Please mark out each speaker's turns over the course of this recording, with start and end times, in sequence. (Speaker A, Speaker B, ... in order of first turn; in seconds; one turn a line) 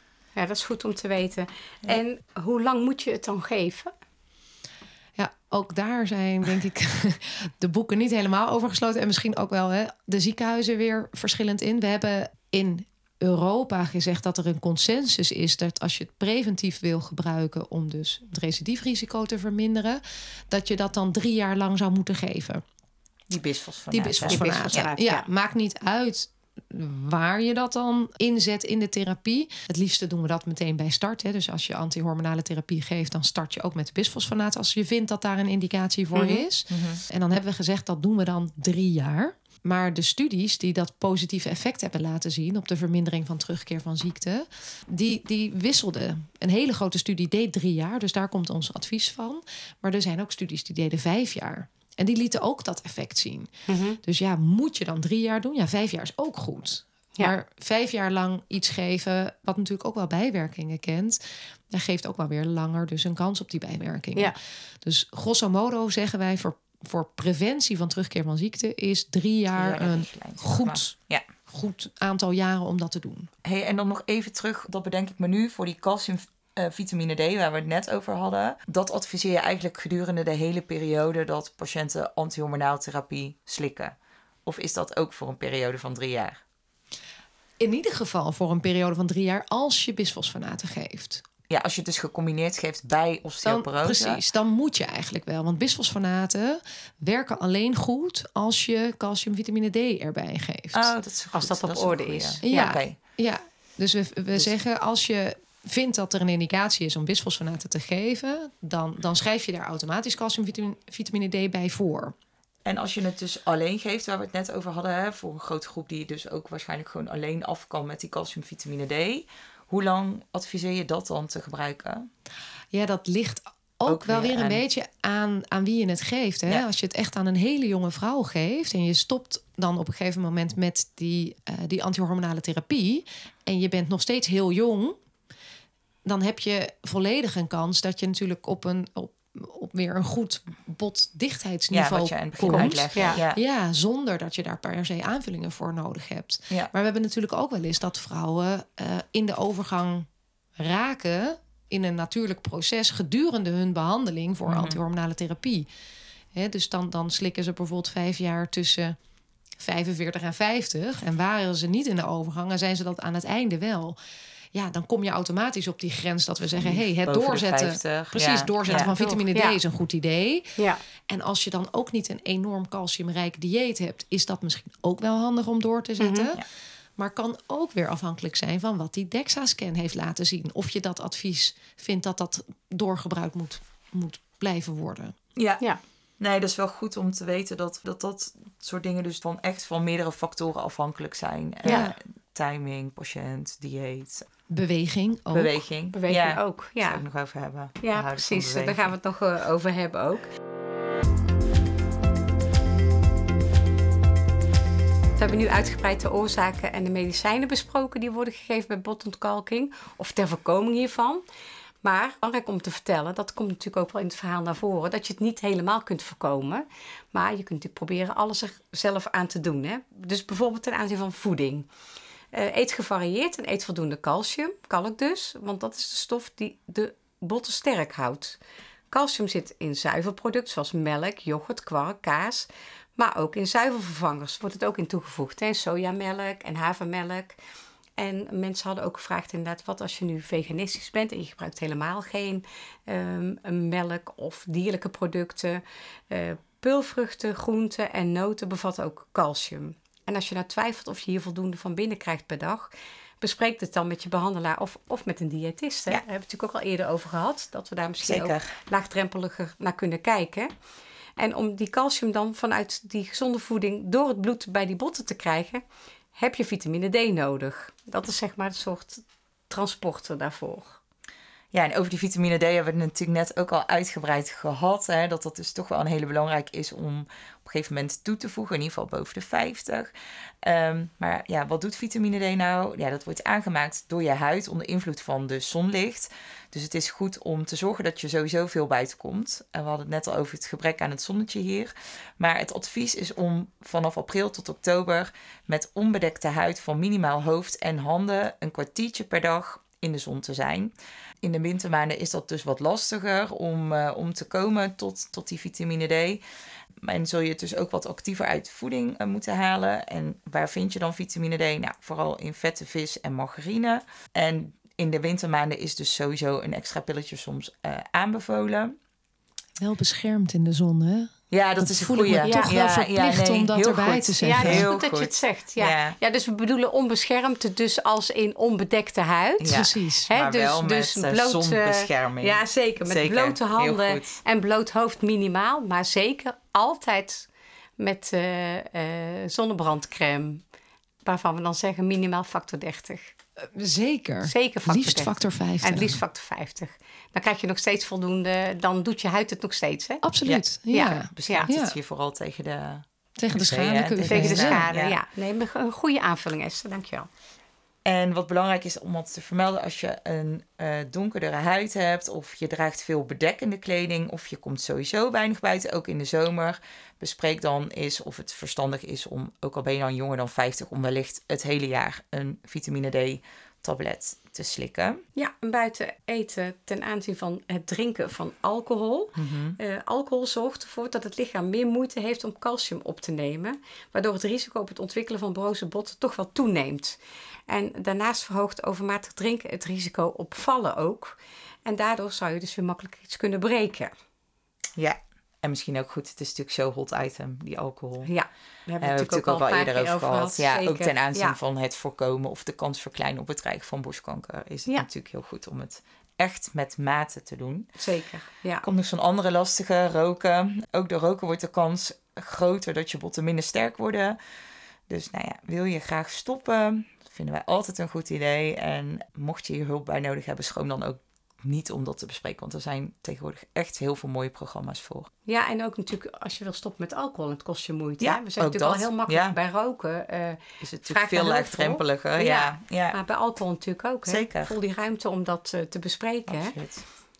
Speaker A: 0.4-3.9
Speaker B: 5.2-22.6
Speaker C: 23.3-24.9
Speaker B: 23.9-53.5
Speaker A: 24.3-25.2
Speaker A: 36.1-36.4
Speaker C: 36.7-37.0
Speaker A: 53.7-54.0
Speaker B: 54.0-61.2
Speaker B: 61.7-73.3
Speaker C: 69.5-71.2
Speaker C: 73.4-86.4
Speaker B: 87.6-91.2
Speaker C: 91.5-94.2
Speaker B: 93.4-100.9
Speaker C: 100.7-103.0
Speaker A: 101.3-102.8
Speaker B: 102.4-112.2
Speaker C: 112.7-122.1
Speaker B: 122.7-135.0
Speaker C: 123.9-124.6
Speaker B: 136.1-155.7
Speaker C: 141.7-143.4
Speaker A: 142.5-143.2
Speaker C: 154.5-154.8
Speaker B: 156.3-159.0
Speaker B: 159.6-164.0
Speaker B: 164.5-170.6
Speaker C: 166.6-168.9
Speaker A: 168.7-169.6
Speaker B: 171.1-176.4
Speaker A: 176.0-176.3
Speaker B: 177.0-185.2
Speaker C: 185.4-185.6
Speaker C: 186.2-194.3
Speaker B: 191.7-192.0
Speaker B: 194.5-195.6
Speaker C: 195.3-198.9
Speaker A: 195.9-197.0
Speaker A: 197.8-200.3
Speaker A: 205.2-211.2
Speaker A: 211.8-221.7
Speaker A: 222.3-228.4
Speaker A: 228.9-237.4
Speaker A: 238.0-260.5
Speaker C: 258.0-258.6
Speaker A: 261.2-265.6
Speaker A: 266.1-270.8
Speaker C: 271.5-279.9
Speaker C: 280.4-306.2
Speaker C: 306.8-318.8
Speaker B: 319.6-324.7
Speaker C: 321.3-326.0
Speaker A: 322.3-322.5
Speaker A: 324.2-340.4
Speaker C: 329.4-334.2
Speaker B: 329.5-330.1
Speaker A: 341.1-343.1
Speaker B: 343.4-346.0
Speaker A: 344.3-350.0
Speaker B: 350.0-351.8
Speaker C: 350.3-355.0
Speaker A: 350.7-351.5
Speaker B: 353.2-354.6
Speaker A: 354.1-357.1
Speaker C: 357.9-375.0
Speaker A: 375.2-393.9
Speaker C: 379.2-379.6
Speaker C: 394.8-398.1
Speaker A: 398.1-401.4
Speaker C: 398.8-407.7
Speaker A: 407.8-408.7
Speaker C: 408.6-414.2
Speaker C: 414.9-425.1
Speaker A: 425.3-436.6
Speaker C: 428.0-429.4
Speaker C: 430.6-433.0
Speaker C: 434.1-434.6
Speaker C: 436.3-436.8